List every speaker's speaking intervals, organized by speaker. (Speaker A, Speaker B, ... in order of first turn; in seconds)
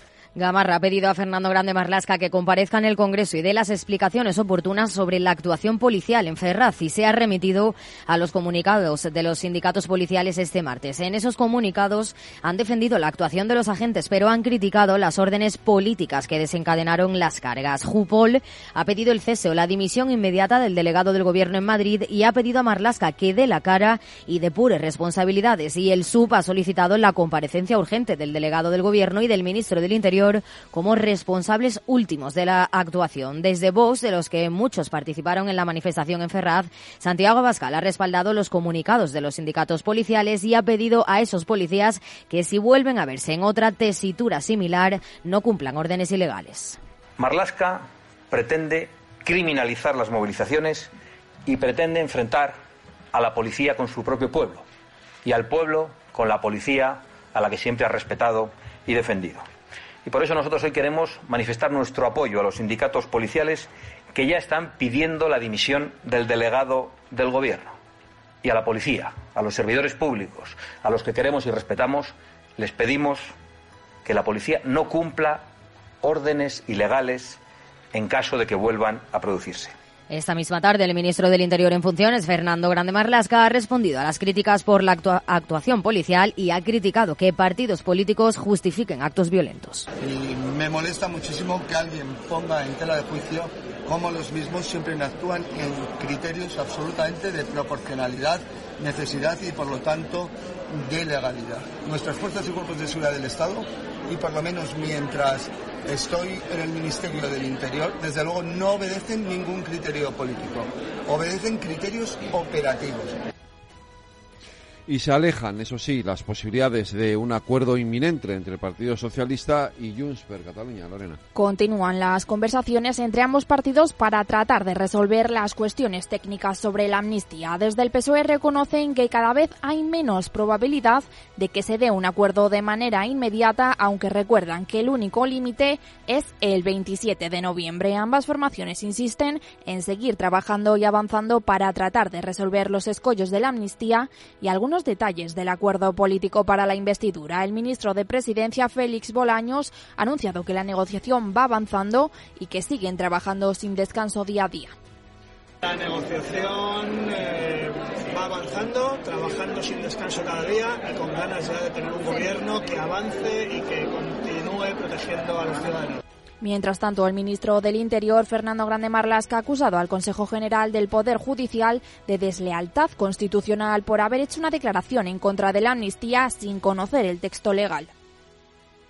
Speaker A: 0.3-46.8, 80.1-89.9
Speaker B: 47.2-50.9, 51.5-52.6, 53.1-54.6, 55.2-59.5, 60.0-67.8, 68.4-73.3, 74.0-75.5, 76.0-77.4, 77.9-79.7
Speaker C: 90.0-113.2
Speaker D: 114.9-121.2
Speaker E: 121.3-154.7, 166.4-177.9
Speaker F: 155.7-157.0, 157.6-165.9